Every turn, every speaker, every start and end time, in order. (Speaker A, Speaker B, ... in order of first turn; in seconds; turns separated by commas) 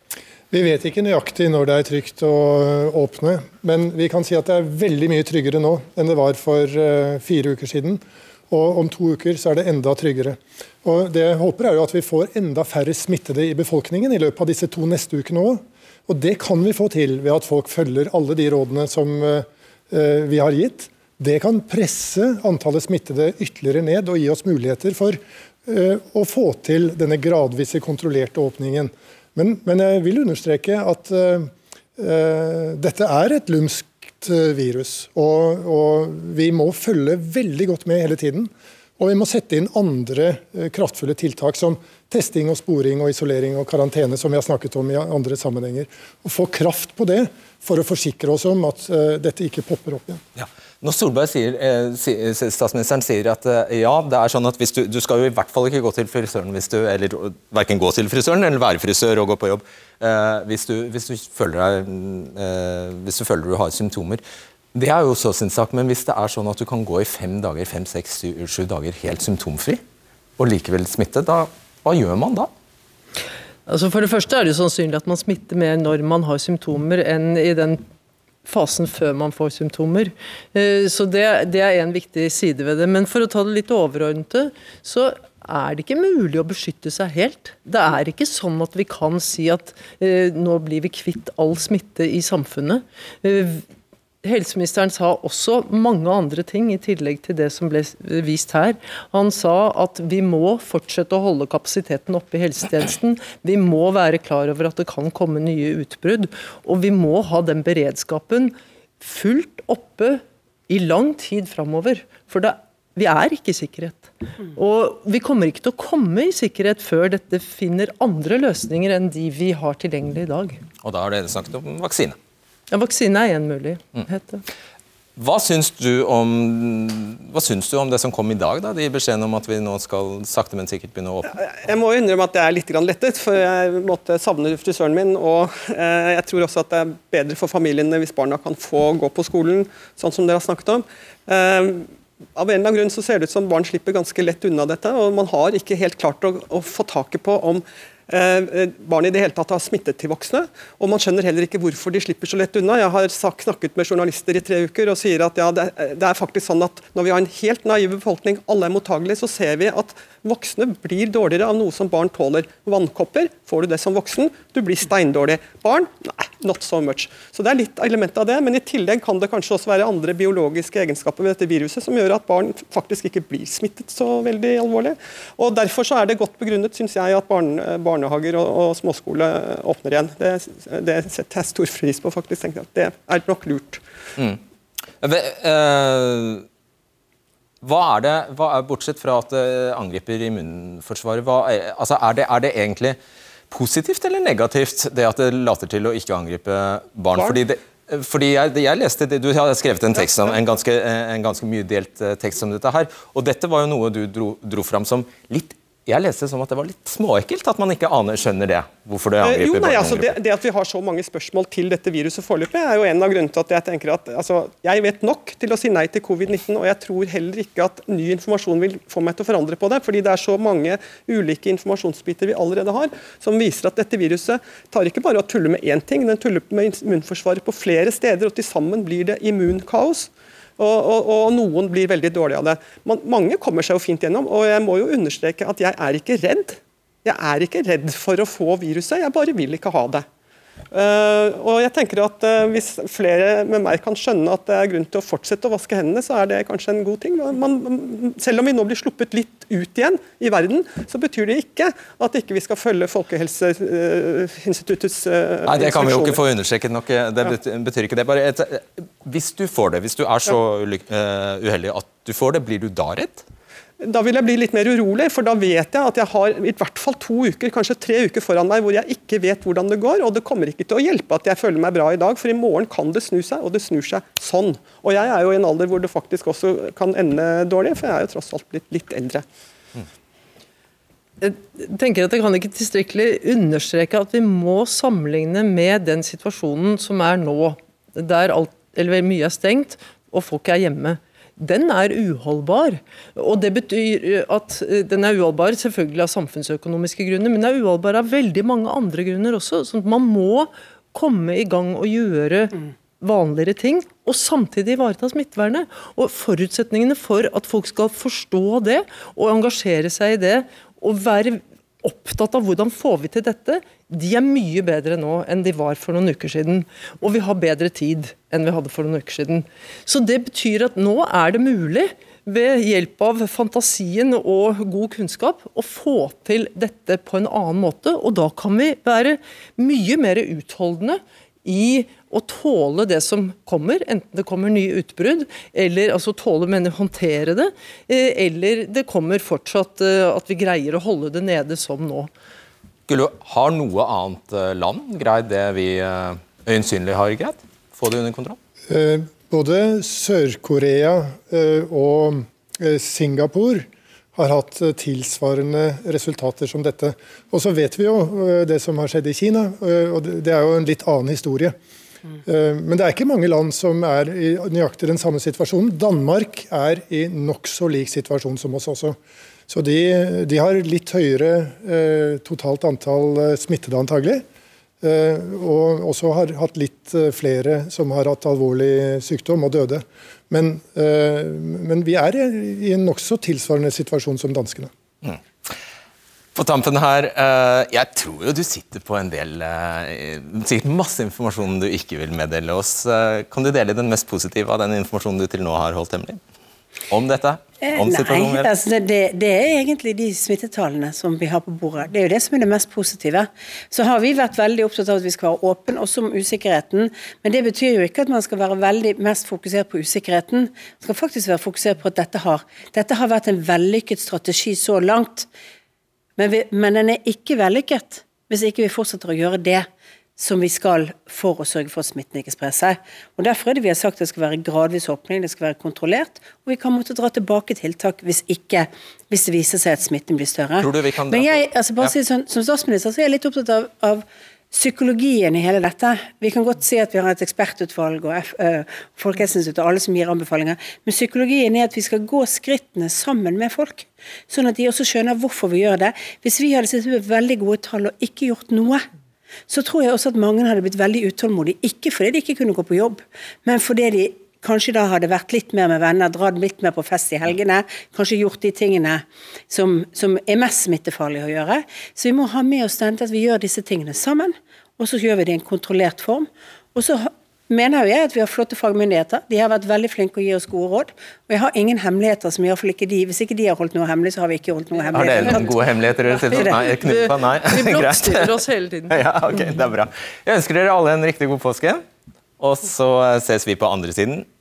Speaker A: 0.5-50.2, Speaker B: 50.4-64.2, Speaker B: 64.8-69.8, Speaker B: 70.4-72.5, Speaker C: 73.7-77.8, Speaker C: 78.5-93.6, Speaker C: 94.2-120.6, Speaker B: 120.8-122.2, Speaker C: 122.7-124.4, Speaker B: 125.2-131.3, Speaker D: 131.3-183.8, Speaker B: 185.0-186.4, Speaker B: 187.6-193.0, Speaker B: 193.5-210.1, Speaker D: 209.2-240.1, Speaker D: 240.7-256.2, Speaker B: 255.5-263.2, Speaker D: 263.8-279.2, Speaker C: 281.2-342.1, Speaker B: 342.9-348.4, Speaker A: 348.7-361.6, Speaker A: 362.3-369.0, Speaker A: 369.5-374.2, Speaker A: 374.8-384.7, Speaker B: 385.0-385.6, Speaker B: 386.4-396.2, Speaker B: 396.9-398.5, Speaker E: 397.6-415.3, Speaker E: 416.2-448.8, Speaker B: 430.6-431.9, Speaker E: 449.5-475.5, Speaker B: 474.9-478.3, Speaker C: 475.2-475.5, Speaker C: 476.1-479.6, Speaker E: 476.4-476.6, Speaker B: 478.9-481.8, Speaker B: 482.4-484.3